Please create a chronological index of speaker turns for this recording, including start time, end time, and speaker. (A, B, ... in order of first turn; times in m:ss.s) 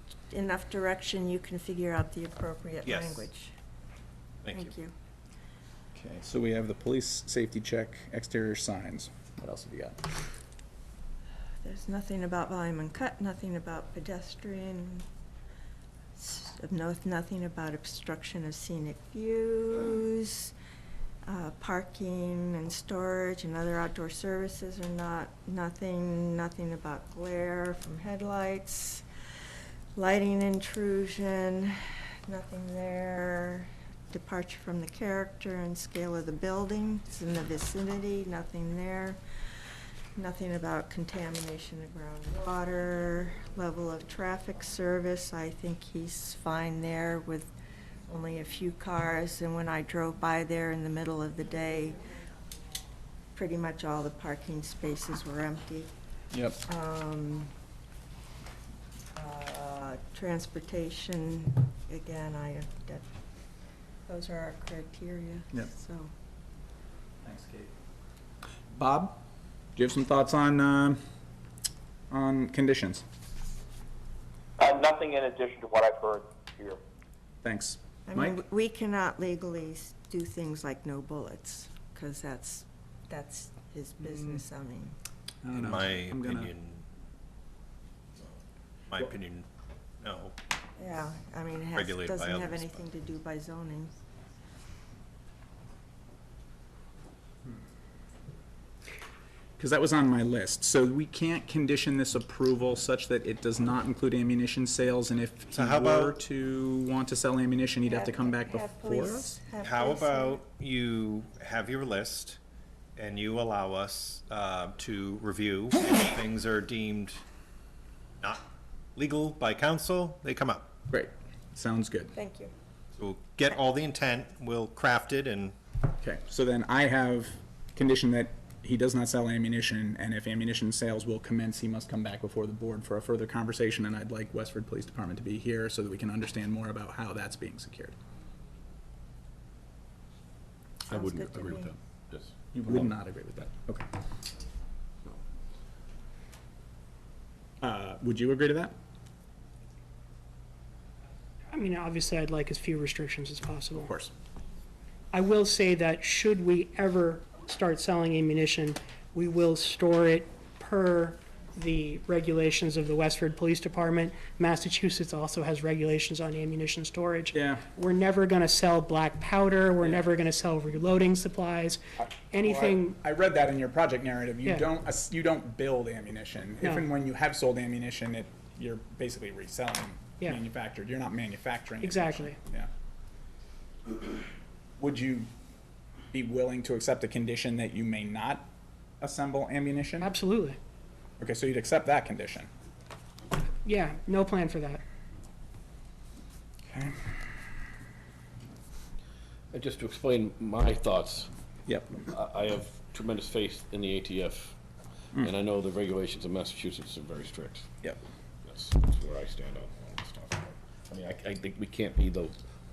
0:00.3-0:03.5 A
0:02.8-0:03.3 B
0:04.4-0:04.7 B
0:04.5-0:04.9 A
0:05.9-0:10.2 C
0:11.6-0:15.0 A
0:16.2-0:20.5 A
0:21.2-0:29.0 A
0:29.9-0:39.2 A
0:40.2-0:47.5 A
0:48.1-0:52.0 A
0:53.3-0:55.9 A
0:56.3-0:56.6 C
0:56.6-0:57.5 A
0:59.1-1:03.0 A
1:04.0-1:06.1 A
1:07.2-1:07.7 C
1:08.7-1:09.2 C
1:09.8-1:11.0 C
1:12.1-1:13.0 C
1:14.6-1:16.8 D
1:17.4-1:18.4 C
1:18.1-1:25.0 A
1:25.4-1:26.5 C
1:25.5-1:26.8 B
1:28.9-1:29.4 B
1:30.0-1:30.3 B
1:30.8-1:33.9 A
1:31.7-1:32.8 B
1:39.6-1:49.4 C
1:45.5-1:46.2 B
1:47.8-1:50.4 A
1:49.6-1:52.4 B
1:53.0-1:57.2 B
1:59.0-2:00.7 B
2:00.9-2:02.1 C
2:02.1-2:02.5 A
2:03.0-2:05.5 B
2:06.0-2:17.9 C
2:20.9-2:21.7 A
2:20.9-2:22.9 E
2:22.5-2:23.8 C
2:27.6-2:28.7 C
2:31.5-2:33.9 F
2:33.7-2:34.1 C
2:35.1-2:52.9 F
2:47.3-2:47.6 C
2:52.0-3:02.7 C
2:56.6-2:56.8 F
3:01.8-3:02.4 F
3:04.8-3:05.3 C
3:06.1-3:08.5 C
3:09.0-3:10.1 C
3:10.0-3:10.6 F
3:11.2-3:12.5 C
3:13.6-3:14.8 F
3:16.7-3:17.0 C
3:19.5-3:21.3 E
3:21.6-3:22.1 C
3:22.1-3:24.6 E
3:25.1-3:27.7 E
3:28.4-3:32.4 E